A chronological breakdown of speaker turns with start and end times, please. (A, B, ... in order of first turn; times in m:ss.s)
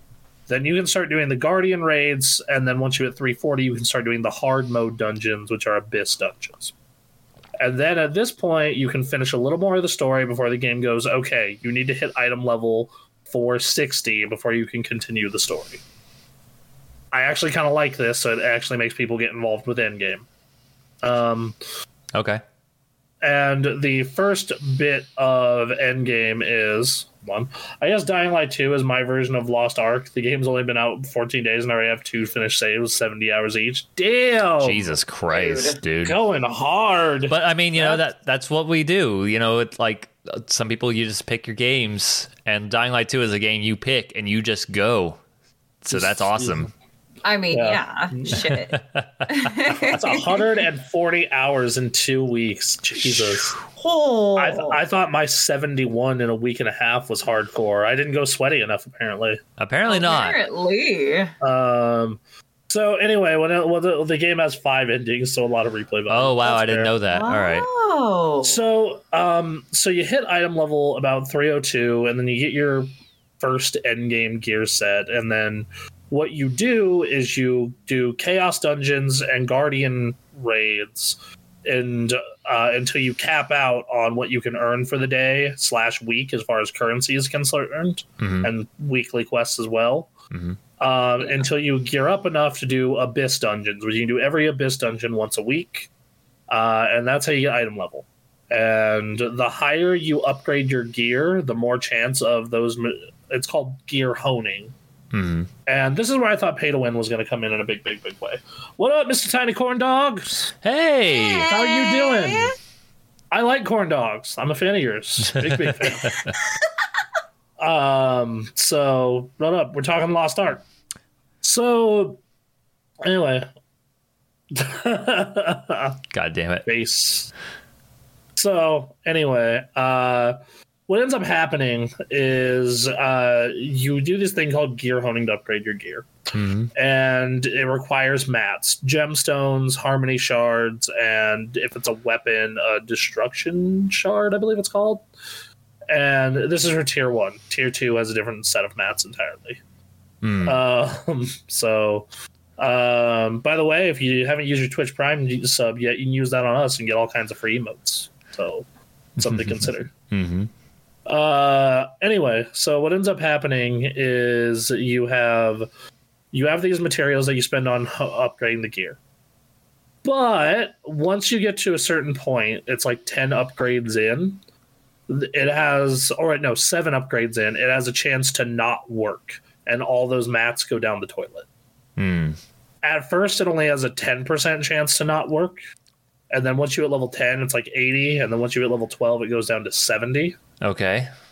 0:00.5-0:06.7 A
0:07.6-0:15.8 A
0:17.1-0:20.3 A
0:21.0-0:21.6 A
0:22.1-0:22.4 B
0:23.2-0:34.9 A
0:34.6-0:36.2 B
0:35.3-0:35.8 C
0:36.0-0:38.0 A
0:37.3-0:45.2 B
0:45.8-0:46.7 B
0:45.9-0:46.7 A
0:47.2-0:48.8 C
0:47.5-0:48.5 A
0:48.3-0:49.5 B
0:49.3-0:50.4 C
0:49.7-0:53.6 A
0:53.0-0:53.6 B
0:53.7-0:54.8 C
0:54.4-0:59.4 A
0:59.6-1:00.4 B
0:59.8-1:01.3 C
1:01.4-1:06.9 A
1:06.1-1:07.7 B
1:07.1-1:08.6 C
1:08.4-1:30.1 A
1:28.2-1:28.5 B
1:30.3-1:30.6 B
1:30.8-1:35.9 A
1:36.5-1:44.7 A
1:45.1-1:45.5 B
1:45.6-1:50.5 A
1:50.6-1:51.5 B
1:51.2-1:52.5 C
1:51.5-1:52.5 A
1:53.3-1:56.2 A
1:55.2-1:56.4 B
1:57.6-2:00.6 A
2:01.4-2:02.2 A
2:03.0-2:03.5 A
2:04.5-2:06.0 A
2:06.1-2:06.7 B
2:06.6-2:07.3 A
2:08.4-2:16.1 A
2:16.3-2:16.7 B
2:16.7-2:25.0 A
2:25.9-2:29.6 A
2:30.2-2:30.6 B
2:30.4-2:38.7 A
2:39.2-2:39.9 A
2:39.2-2:40.5 B
2:41.1-2:45.7 A
2:46.3-2:49.0 A
2:50.0-2:54.4 A
2:55.1-3:01.4 A
3:02.0-3:02.4 B
3:02.8-3:05.6 A
3:06.3-3:10.4 A
3:10.6-3:11.1 B